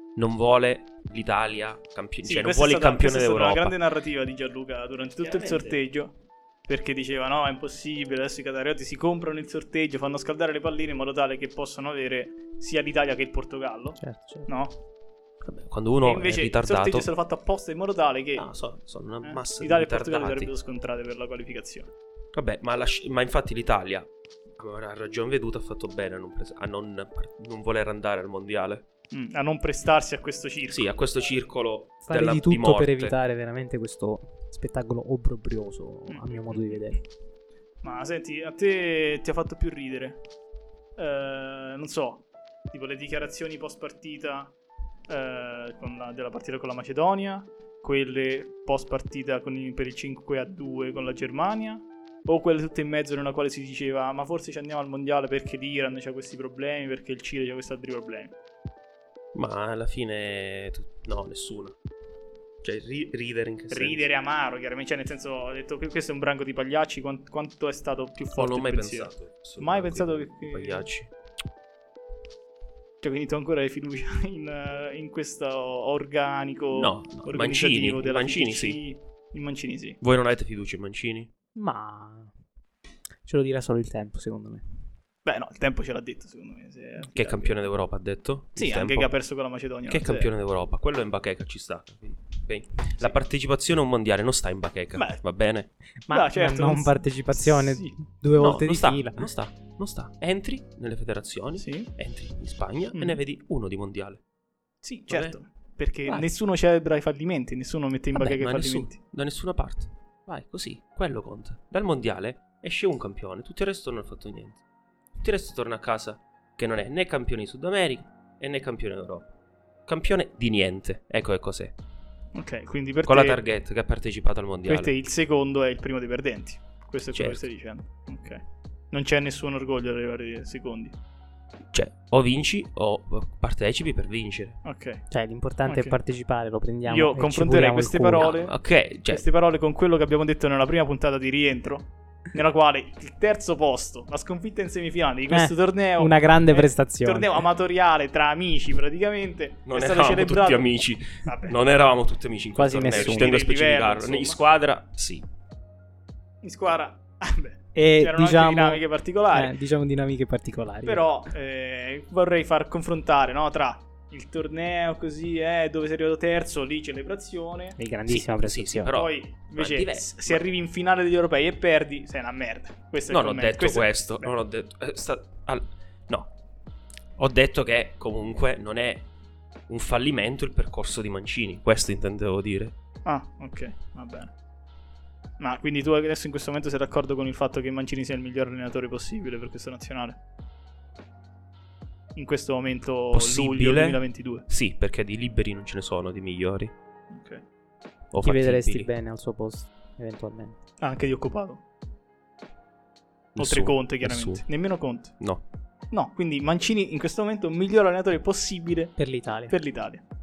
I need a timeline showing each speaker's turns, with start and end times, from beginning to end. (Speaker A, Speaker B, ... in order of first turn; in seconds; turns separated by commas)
Speaker A: 0.1-3.8, Speaker B: 2.2-6.1, Speaker A: 5.2-5.8, Speaker B: 6.7-14.8, Speaker C: 14.0-14.5, Speaker A: 15.4-17.1, Speaker B: 16.0-18.5, Speaker A: 18.4-20.5, Speaker B: 19.2-21.9, Speaker A: 22.3-28.8, Speaker B: 29.1-30.9, Speaker A: 30.7-33.1, Speaker C: 32.0-37.0, Speaker B: 36.1-37.0, Speaker B: 37.8-40.2, Speaker B: 41.0-44.5, Speaker B: 45.1-58.3, Speaker A: 59.3-61.7, Speaker A: 62.6-64.0, Speaker B: 63.7-70.8, Speaker A: 68.3-71.1, Speaker B: 73.0-80.0, Speaker A: 76.7-78.8, Speaker A: 80.0-81.3, Speaker C: 81.5-82.3, Speaker C: 83.2-84.6, Speaker B: 85.2-87.6, Speaker A: 87.1-89.1, Speaker B: 88.5-90.3, Speaker A: 89.9-95.7, Speaker B: 94.9-95.2, Speaker C: 96.1-99.2, Speaker B: 96.1-97.9, Speaker A: 98.3-104.2, Speaker B: 101.6-101.9, Speaker B: 102.9-103.2, Speaker B: 104.8-109.0, Speaker A: 105.1-105.3, Speaker A: 108.1-114.6, Speaker A: 115.2-119.3, Speaker A: 119.9-121.8, Speaker B: 122.3-123.4, Speaker A: 123.0-124.9, Speaker B: 124.7-130.9, Speaker A: 127.1-127.4, Speaker A: 131.7-134.6, Speaker B: 134.6-135.0, Speaker C: 135.1-138.3, Speaker B: 135.6-136.0, Speaker B: 136.8-138.5, Speaker A: 138.2-139.2, Speaker B: 139.1-150.7, Speaker C: 145.3-147.4, Speaker A: 149.6-155.2, Speaker B: 151.2-151.6, Speaker C: 152.6-153.3, Speaker B: 152.8-154.4, Speaker B: 156.4-159.5, Speaker C: 157.7-161.0, Speaker B: 160.8-167.8, Speaker C: 167.8-168.9, Speaker A: 168.1-170.4, Speaker B: 168.9-174.3, Speaker A: 173.1-176.3, Speaker A: 177.2-179.1, Speaker A: 179.7-182.8, Speaker B: 183.0-184.3, Speaker B: 185.4-190.2, Speaker B: 192.2-194.4, Speaker A: 193.1-196.7, Speaker B: 197.1-197.4, Speaker A: 198.1-198.9, Speaker C: 198.2-200.6, Speaker B: 200.8-201.6, Speaker A: 203.3-204.4, Speaker B: 203.4-205.2, Speaker B: 205.9-209.0, Speaker C: 209.0-209.5, Speaker B: 209.5-210.0